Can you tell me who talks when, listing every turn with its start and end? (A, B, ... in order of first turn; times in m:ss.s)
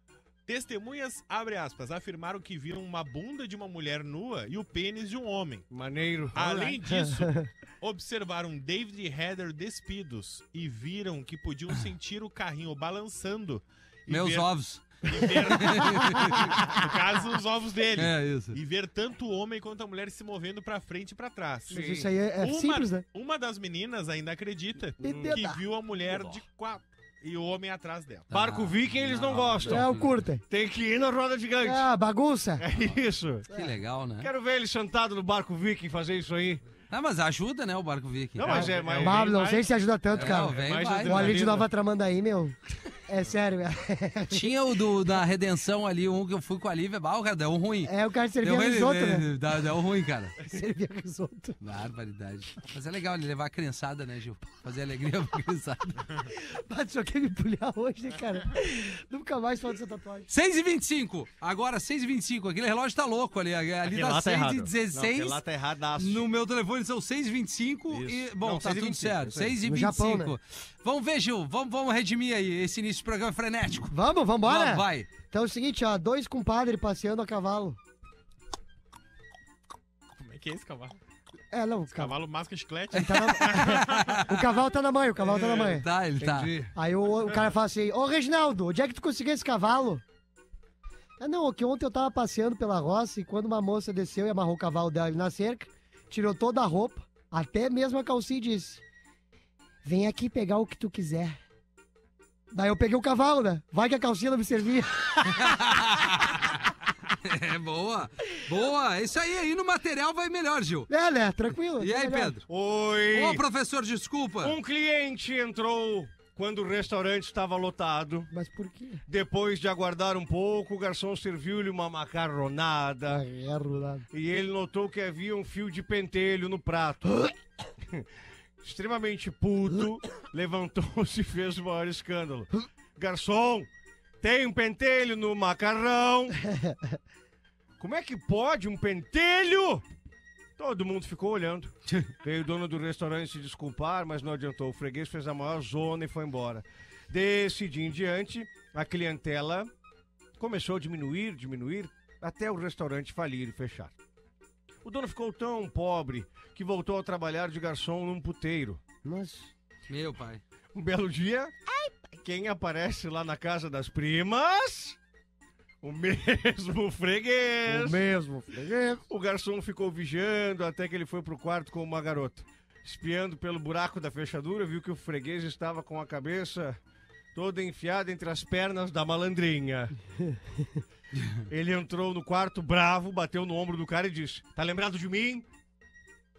0:00.4-0:05.7 A
0:05.7-0:06.8 B
0:06.3-0:14.5 A
0:06.9-0:07.5 C
0:14.1-0:16.6 D
0:15.0-0:28.3 A
0:18.0-0:18.6 D
0:21.7-0:22.1 B
0:21.7-0:23.0 C
0:25.0-0:25.6 C
0:25.0-0:25.4 B
0:28.3-0:30.2 D
0:28.3-0:29.9 B
0:29.6-0:30.4 C
0:30.5-0:31.8 B
0:31.6-0:32.6 C
0:32.6-0:33.5 B
0:33.5-0:34.3 D
0:34.2-0:36.6 B
0:36.9-0:38.6 D
0:38.4-0:39.6 B
0:38.4-0:39.6 A
0:38.5-0:44.5 C
0:40.1-0:41.4 D
0:40.2-0:41.7 B
0:44.3-0:50.3 D
0:47.8-0:49.3 C
0:50.4-0:51.6 C
0:51.6-0:56.1 D
0:56.3-1:00.3 C
1:00.3-1:05.4 D
1:03.8-1:06.2 B
1:06.0-1:15.1 D
1:07.9-1:09.6 B
1:09.6-1:10.3 C
1:13.9-1:17.8 C
1:20.2-1:21.0 A
1:21.5-1:22.2 C
1:21.9-1:24.2 A
1:22.9-1:25.8 C
1:22.9-1:24.4 D
1:25.4-1:26.5 D
1:26.2-1:26.7 B
1:26.7-1:30.0 C
1:31.2-1:38.8 C
1:39.8-1:41.4 C
1:42.5-1:45.8 C
1:45.3-1:50.9 D
1:50.9-1:52.4 C
1:51.8-1:52.4 D
1:52.5-1:53.4 B
1:53.1-1:54.6 D
1:54.4-1:58.3 B
1:58.3-1:59.0 C
1:59.1-2:03.2 B
2:03.1-2:04.1 C
2:04.1-2:07.3 B
2:08.6-2:13.7 B
2:14.2-2:16.4 B
2:16.5-2:16.8 C
2:17.8-2:19.8 B
2:20.6-2:29.7 B
2:30.4-2:33.9 B
2:34.8-2:38.8 B
2:39.0-2:39.5 C
2:39.9-2:40.4 D
2:40.7-2:41.5 B
2:41.7-2:42.1 C
2:42.2-2:45.0 B
2:45.8-2:48.0 B
2:47.6-2:49.0 C
2:49.1-2:56.8 B
2:57.3-3:00.0 B
3:01.5-3:05.5 B